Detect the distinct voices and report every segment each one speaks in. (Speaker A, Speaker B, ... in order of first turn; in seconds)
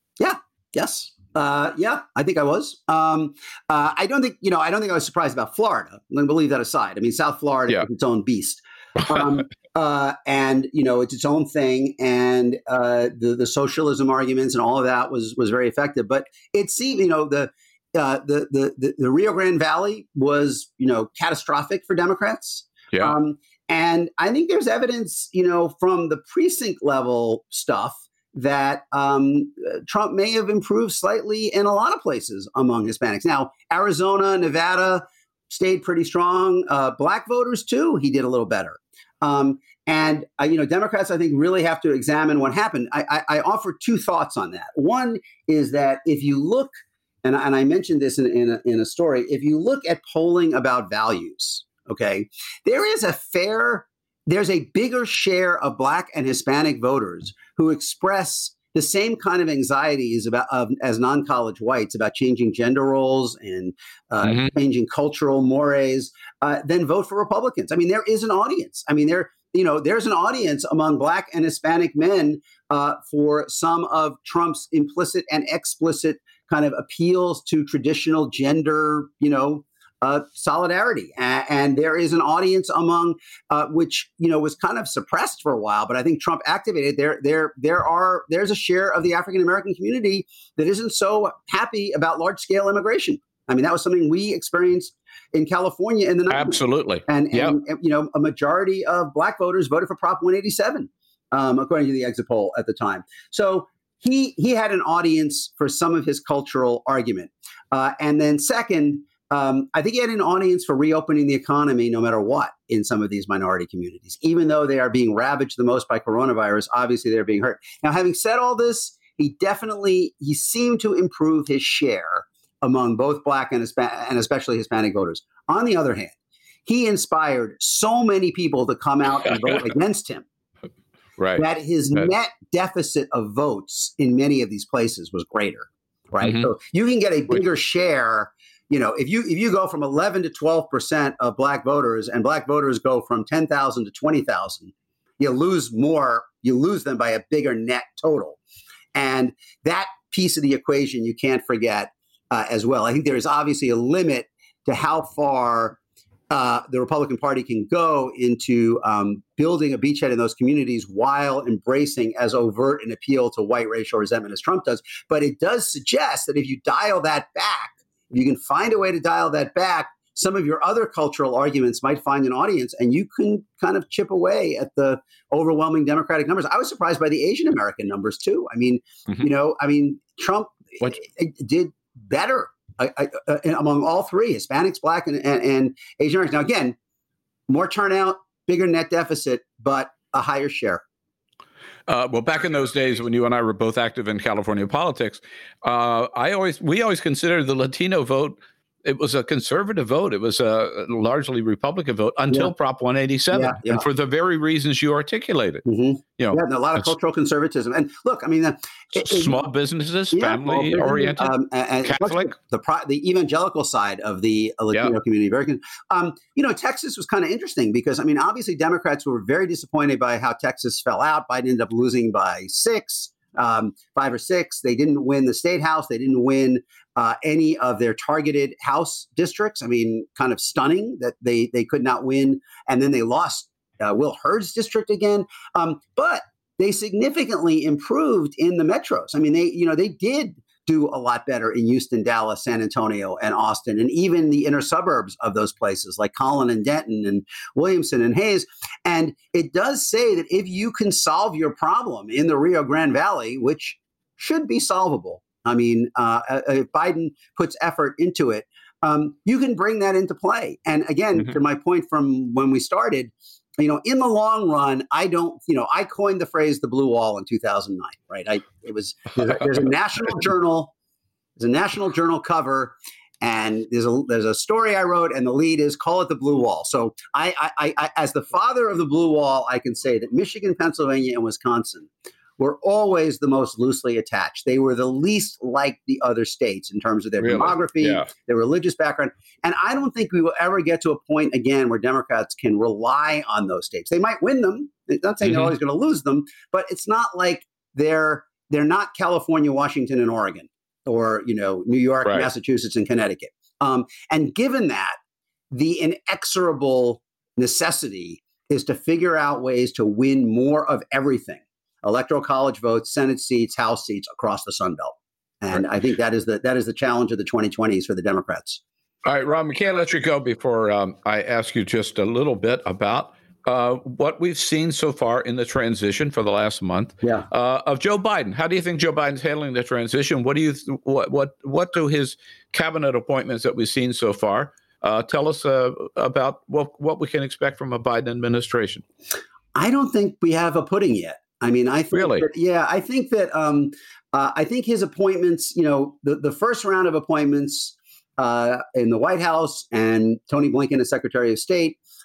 Speaker A: 0.2-46.7, 47.2-126.1, 126.7-130.2, 131.4-148.4, 148.9-155.8, 156.3-186.8, 187.5-190.8, 203.3-203.8, 205.7-209.4, 210.1-270.7, 271.4-305.0, 305.5-318.6, 339.6-351.8
Speaker B: 96.3-97.6, 131.2-132.1, 136.2-136.5, 191.9-205.7, 206.2-206.9, 208.9-212.3, 287.2-288.1, 295.2-295.5, 302.1-302.3, 319.1-338.8, 341.9-342.3